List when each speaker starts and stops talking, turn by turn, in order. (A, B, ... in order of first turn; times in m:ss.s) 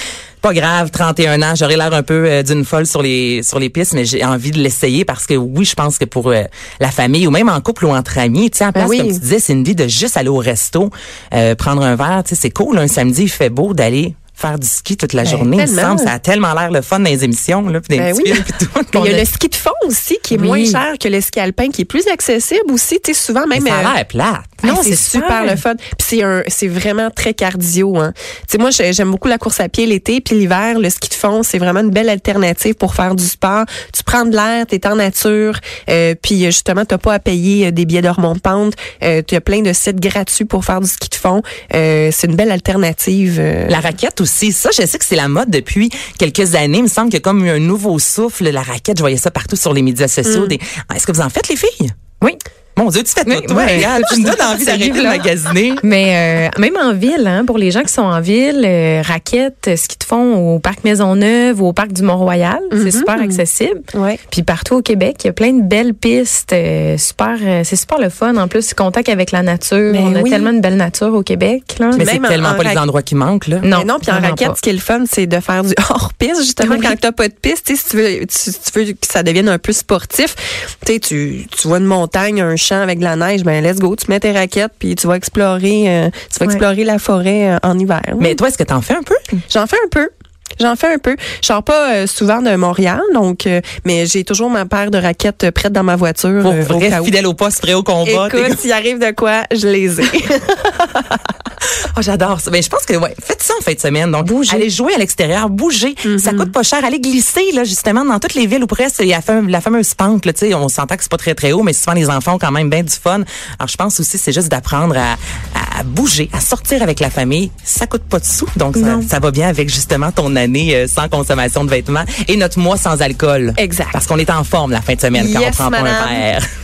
0:00.4-0:19.2 A
0:08.8-0:09.2 B
0:15.2-0:16.1 B
0:18.0-0:23.9 B
0:20.3-0:20.8 C
0:23.5-0:24.7 A
0:24.6-0:25.6 C
0:24.6-0:43.8 B
0:43.7-0:52.0 A
0:50.3-0:50.6 B
0:52.8-0:55.8 A
0:53.2-1:12.1 C
1:02.7-1:04.2 B
1:09.9-1:10.5 B
1:12.0-1:13.7 A
1:12.0-1:12.8 B
1:13.6-1:14.6 C
1:13.7-1:28.4 B
1:16.6-1:16.9 C
1:28.2-1:29.2 A
1:29.5-1:37.2 B
1:36.4-1:38.6 A
1:38.0-1:41.3 B
1:42.0-2:06.4 A
1:44.2-1:44.6 C
1:46.0-1:46.5 B
1:58.8-1:59.1 C
2:03.6-2:04.0 B
2:05.1-2:06.2 B